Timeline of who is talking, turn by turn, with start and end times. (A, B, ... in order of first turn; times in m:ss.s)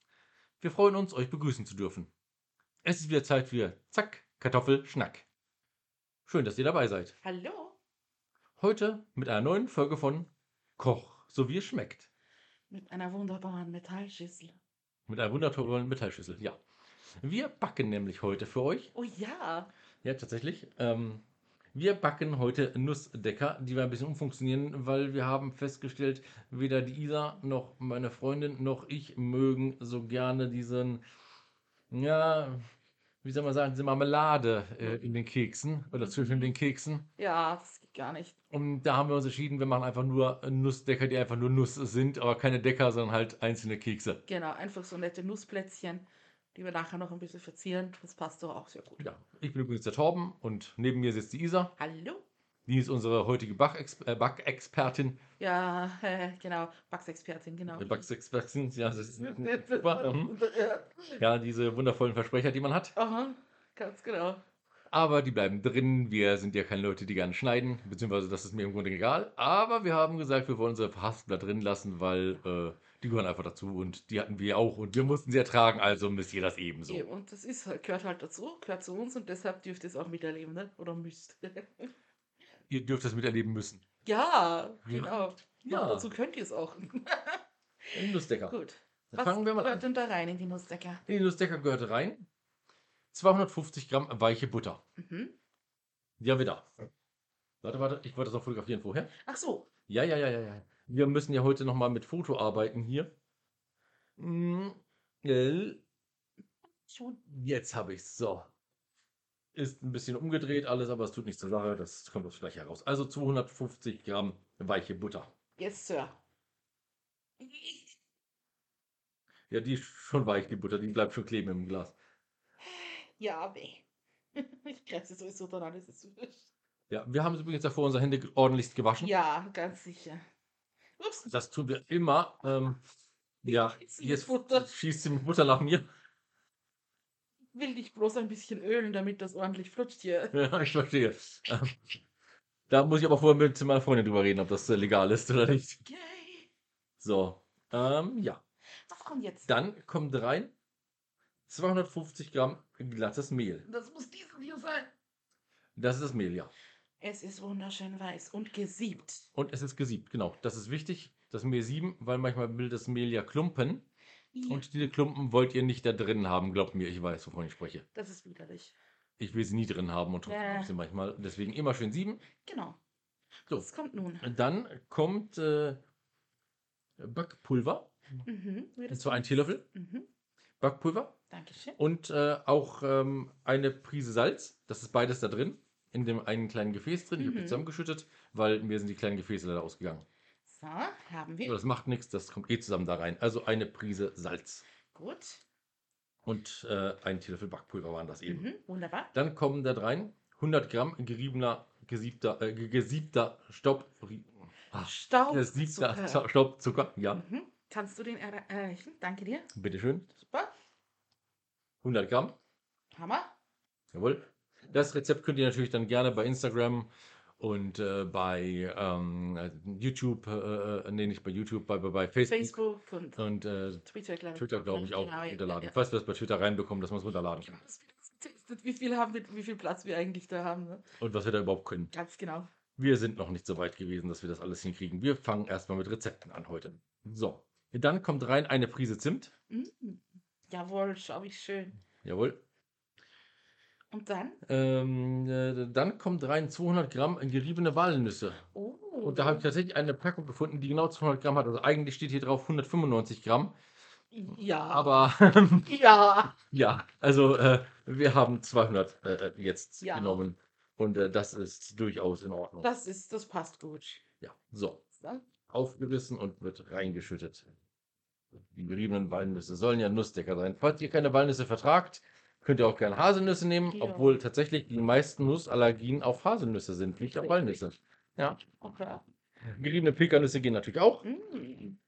0:00.6-0:02.1 A
0:02.8-0:05.2 A
0:06.2-0:07.1 A
0:07.2-0:07.8 B
0:08.6-0:12.1 A
0:12.7-0:14.6 B
0:15.1-0:16.6 A
0:17.2-0:18.9 A
0:18.9-0:19.7 B
0:20.0-0:31.0 A
0:31.9-0:32.6 A
0:33.2-0:37.0 A
0:34.8-0:35.1 B
0:35.9-0:36.5 B
0:37.2-0:38.4 B
0:38.5-0:44.2 A
0:44.3-0:49.0 B
0:49.0-0:51.7 A
0:51.8-0:52.2 B
0:52.7-0:55.2 A
0:55.4-0:58.0 B
0:57.7-1:00.3 A
0:59.2-1:01.2 B
1:01.2-1:02.9 A
1:03.0-1:04.4 B
1:04.9-1:17.0 A
1:16.9-1:21.9 B
1:22.7-1:23.8 A
1:24.0-1:31.0 B
1:24.8-1:26.1 A
1:27.9-1:28.6 A
1:29.1-1:29.8 A
1:31.1-1:32.3 A
1:33.1-1:34.8 A
1:35.0-1:35.4 B
1:36.2-1:36.7 A
1:37.6-1:39.1 A
1:39.2-1:39.7 B
1:39.9-1:43.1 A
1:44.2-1:45.8 A
1:46.7-1:47.2 B
1:47.3-1:48.5 A
1:49.5-1:55.3 A
1:55.6-1:56.2 B
1:57.4-1:58.0 B
1:59.5-2:02.0 A
2:02.6-2:06.5 B
2:06.9-2:09.1 A
2:09.0-2:10.2 B
2:11.0-2:11.3 B
2:11.3-2:12.8 A
2:13.4-2:15.9 A
2:13.4-2:14.7 B
2:17.5-2:20.4 B
2:20.3-2:21.9 A
2:22.7-2:25.8 A
2:25.8-2:26.5 B
2:27.0-2:28.4 A
2:28.9-2:29.5 B
2:29.4-2:30.5 A
2:31.5-2:33.6 A
2:33.6-2:34.9 B
2:35.8-2:36.5 A
2:37.0-2:39.3 B
2:39.3-2:43.8 A
2:44.3-2:44.9 B
2:44.5-2:47.8 A
2:47.9-2:48.8 B
2:49.2-2:52.2 A
2:50.2-2:50.7 B
2:52.4-2:52.8 B
2:53.5-2:54.3 B
2:54.2-2:55.8 A
2:57.0-2:57.9 A
2:58.2-3:00.1 B
2:58.9-2:59.6 A
3:00.6-3:01.2 A
3:01.3-3:01.8 B
3:01.8-3:10.0 A
3:07.2-3:07.6 B
3:10.4-3:11.6 B
3:11.4-3:14.6 A
3:14.9-3:15.4 B
3:16.2-3:18.5 A
3:18.3-3:19.1 B
3:19.1-3:27.2 A
3:24.8-3:26.2 B
3:27.1-3:29.5 B
3:29.5-3:30.1 A
3:30.1-3:30.5 B
3:31.8-3:32.4 A
3:32.9-3:33.3 B
3:33.9-3:42.6 A
3:42.2-3:43.3 B
3:43.2-3:43.8 A
3:43.8-3:45.7 B
3:44.3-3:47.6 A
3:47.4-3:50.8 B
3:51.0-3:51.9 A
3:51.9-3:52.5 B
3:52.8-3:59.3 A
3:59.5-4:01.8 B
4:02.0-4:02.4 A
4:03.9-4:04.4 B
4:04.4-4:08.4 A
4:08.5-4:09.5 B
4:09.0-4:13.5 A
4:14.1-4:15.1 B
4:14.7-4:15.7 A
4:15.6-4:16.4 B
4:16.4-4:22.7 A
4:19.8-4:20.2 B
4:22.6-4:24.0 B
4:24.2-4:24.8 A
4:25.0-4:25.2 B
4:25.5-4:27.4 A
4:28.5-4:38.4 A
4:33.6-4:34.2 B
4:37.0-4:37.6 B
4:38.6-4:39.0 B
4:39.5-4:41.0 A
4:41.0-4:41.8 B